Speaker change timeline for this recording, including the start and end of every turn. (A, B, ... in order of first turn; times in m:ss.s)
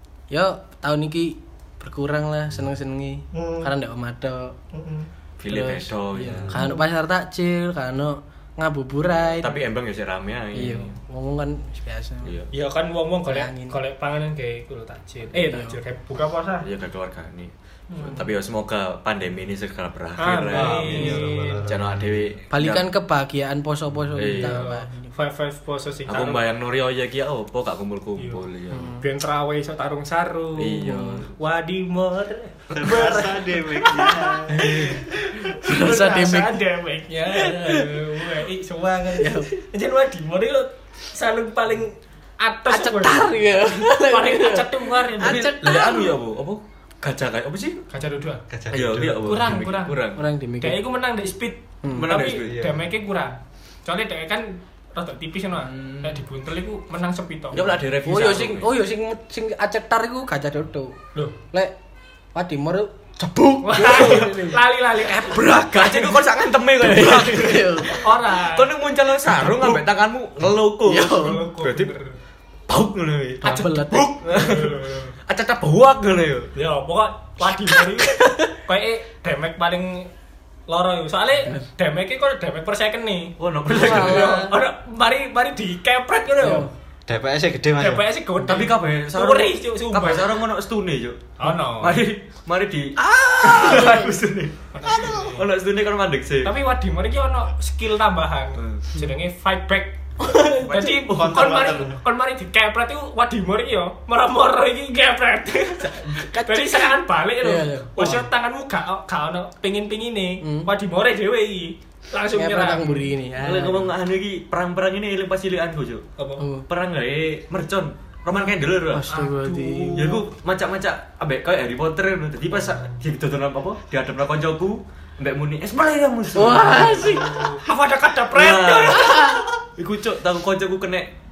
0:00.3-0:04.6 A
0:03.3-0:03.7 B
0:04.7-0:05.1 B
0:05.4-0:06.7 C
0:05.5-0:09.6 A
0:09.3-0:11.0 C
0:10.5-0:12.3 A
0:12.2-0:12.5 C
0:12.5-0:16.7 B
0:13.3-0:13.8 A
0:15.4-0:15.8 A
0:16.6-0:17.5 C
0:17.9-0:18.2 B
0:18.1-0:22.9 C
0:20.2-0:21.6 B
0:20.5-0:22.3 D
0:22.5-0:25.1 A
0:24.2-0:24.7 C
0:24.4-0:26.4 B
0:26.1-0:29.0 C
0:28.2-0:28.4 B
0:28.7-0:29.0 A
0:29.0-0:43.3 B
0:30.6-0:31.3 C
0:30.8-0:31.2 A
0:32.7-0:35.0 D
0:34.6-0:35.0 C
0:35.6-0:36.6 A
0:37.4-0:38.0 A
0:39.2-0:39.5 A
0:42.7-0:46.2 A
0:43.8-0:45.7 B
0:45.2-0:47.8 C
0:47.9-0:48.4 B
0:48.5-0:49.5 D
0:48.7-0:50.2 C
0:49.2-0:50.0 B
0:50.1-0:50.8 A
0:50.6-0:57.8 B
0:51.9-0:52.6 C
0:52.3-0:52.9 D
0:55.6-0:56.2 C
0:57.5-0:58.7 C
0:58.0-1:00.9 A
1:02.4-1:04.6 A
1:03.6-1:06.2 B
1:03.9-1:04.2 C
1:05.2-1:11.9 C
1:06.8-1:08.1 A
1:07.8-1:08.7 B
1:10.9-1:11.4 A
1:11.1-1:12.2 B
1:12.7-1:16.5 C
1:13.4-1:14.3 A
1:14.3-1:15.1 B
1:16.6-1:20.1 B
1:18.1-1:18.5 A
1:20.7-1:26.7 B
1:23.4-1:24.5 C
1:23.7-1:24.6 A
1:26.4-1:26.7 A
1:27.1-1:28.1 D
1:27.8-1:30.4 B
1:28.4-1:36.5 C
1:31.4-1:32.0 B
1:33.3-1:34.1 A
1:34.7-1:35.5 B
1:36.4-1:40.0 B
1:38.6-1:38.9 C
1:40.2-1:40.9 A
1:40.6-1:41.8 C
1:40.6-1:53.0 B
1:41.1-1:42.0 D
1:46.1-1:46.9 A
1:47.4-1:48.3 A
1:50.4-1:50.7 A
1:52.4-1:53.9 A
1:53.4-1:56.0 C
1:56.2-1:56.5 B
1:56.4-1:56.7 A
1:56.7-1:59.1 C
1:58.9-2:00.0 A
1:59.1-2:00.3 B
2:00.0-2:07.2 C
2:06.4-2:07.4 A
2:06.5-2:09.2 B
2:08.3-2:11.1 C
2:08.9-2:09.4 A